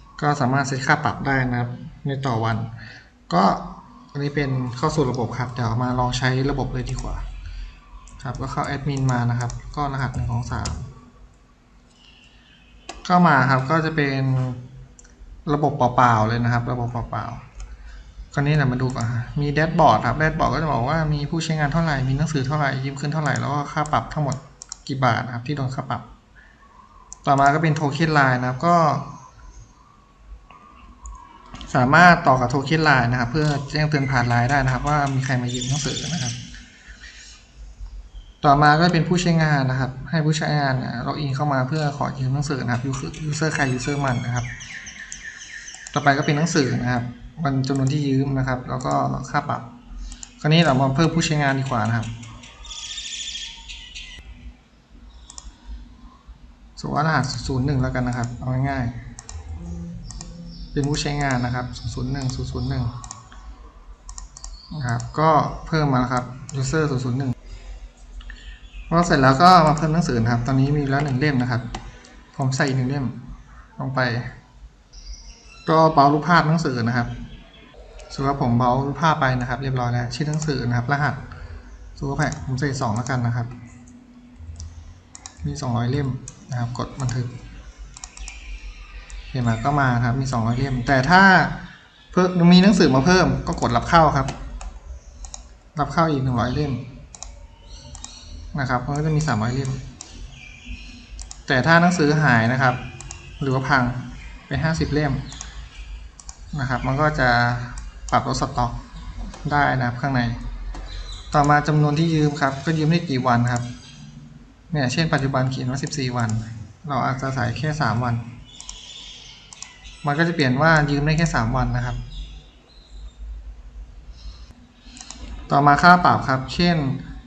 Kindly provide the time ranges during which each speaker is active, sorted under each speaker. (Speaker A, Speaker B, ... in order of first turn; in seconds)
Speaker A: 0.2-2.7, 3.3-7.2, 8.2-10.9, 13.0-14.6, 15.4-17.4, 18.3-26.0, 27.2-29.1, 31.6-36.4, 38.4-44.5, 45.9-49.6, 50.4-52.1, 56.8-59.0, 60.7-62.9, 64.7-67.3, 68.9-71.7, 72.3-73.2, 73.8-74.3, 75.7-77.1, 78.1-81.2, 82.0-83.5, 85.4-87.3, 89.3-91.6, 92.1-94.3, 95.7-96.8, 98.5-99.8, 101.5-102.8, 103.4-105.2, 106.5-108.8, 109.4-110.4, 111.3-113.7, 114.7-118.2, 120.0-122.0, 125.5-127.0